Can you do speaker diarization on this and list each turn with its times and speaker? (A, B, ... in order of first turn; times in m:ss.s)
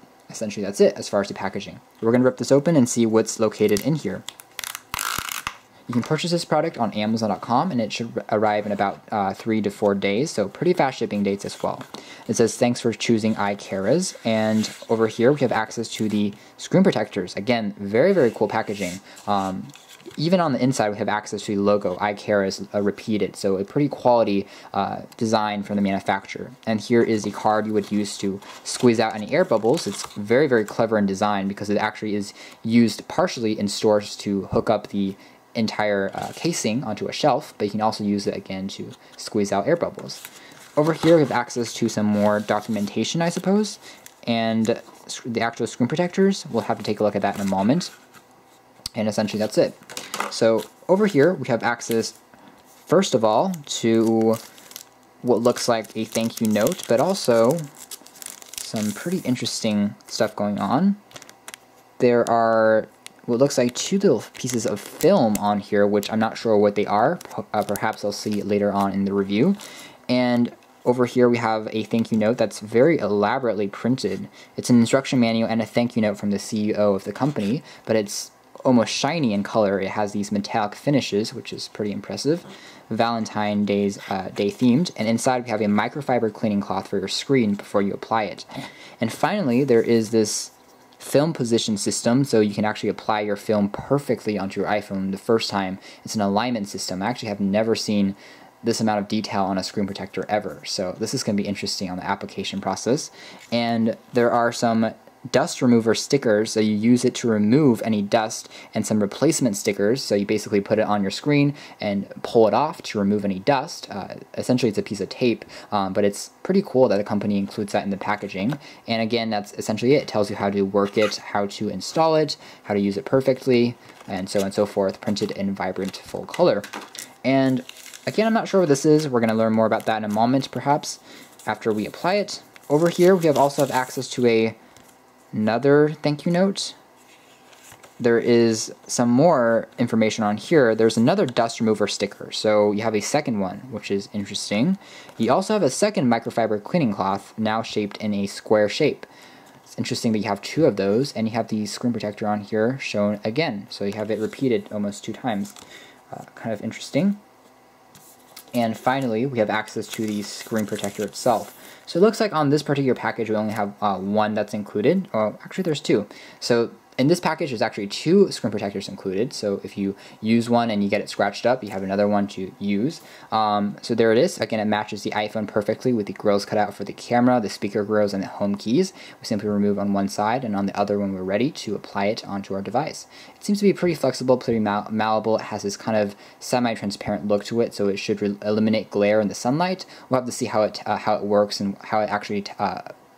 0:00.3-0:04.2 A
0:05.9-0:40.2 A
0:40.8-0:47.9 A
0:48.9-0:52.2 A
0:52.8-0:54.4 A
0:55.2-0:57.7 A
0:58.6-1:01.0 A
1:02.0-1:28.5 A
1:29.0-2:06.7 A
2:07.2-2:14.6 A
2:15.3-2:16.8 A
2:18.0-2:29.1 A
2:29.7-2:35.6 A
2:36.1-2:37.2 A
2:38.5-3:12.9 A